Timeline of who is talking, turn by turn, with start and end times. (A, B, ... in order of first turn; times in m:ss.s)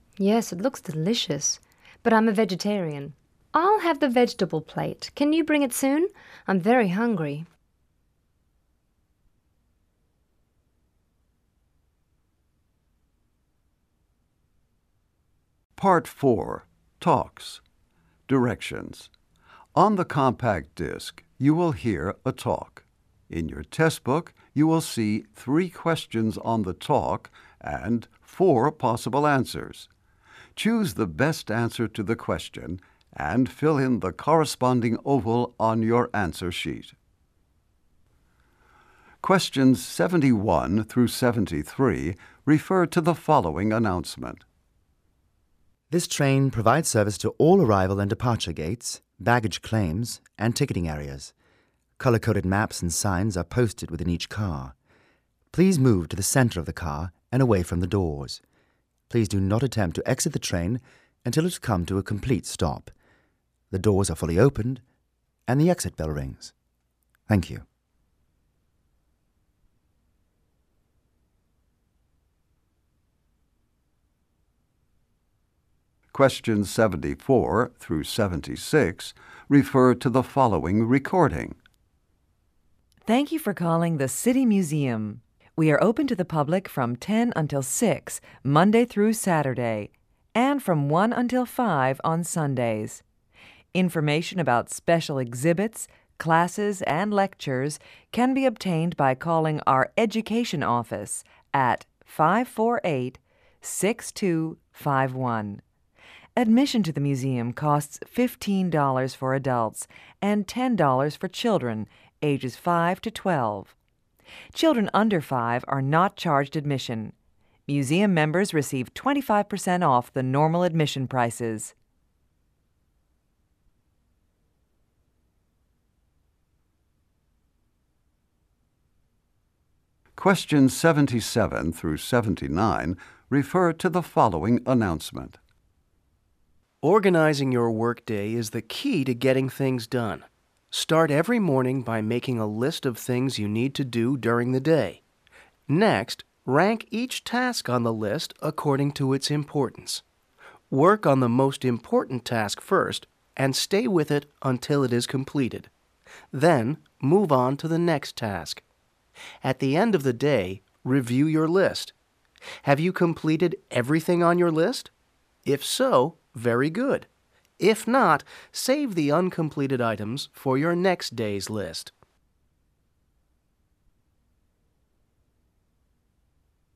0:00.2-0:07.4 A
0:15.8-0:17.6 B
0:18.3-0:19.1 B
0:19.7-0:29.9 B
0:30.6-0:36.9 B
0:39.2-0:44.4 B
0:45.9-0:51.3 C
0:52.0-0:54.7 C
0:55.5-0:58.4 C
0:59.1-1:02.9 C
1:03.7-1:04.8 C
1:05.5-1:06.5 C
1:07.3-1:07.6 C
1:16.1-1:21.6 B
1:23.0-1:33.0 D
1:33.7-1:45.6 D
1:46.4-1:53.7 D
1:54.5-1:57.1 D
1:57.7-2:01.7 D
2:10.2-2:15.4 B
2:16.8-2:25.0 E
2:25.7-2:30.0 E
2:30.7-2:35.7 E
2:36.3-2:38.6 E
2:39.4-2:41.9 E
2:42.6-2:44.9 E
2:45.4-2:47.1 E
2:47.6-2:51.9 E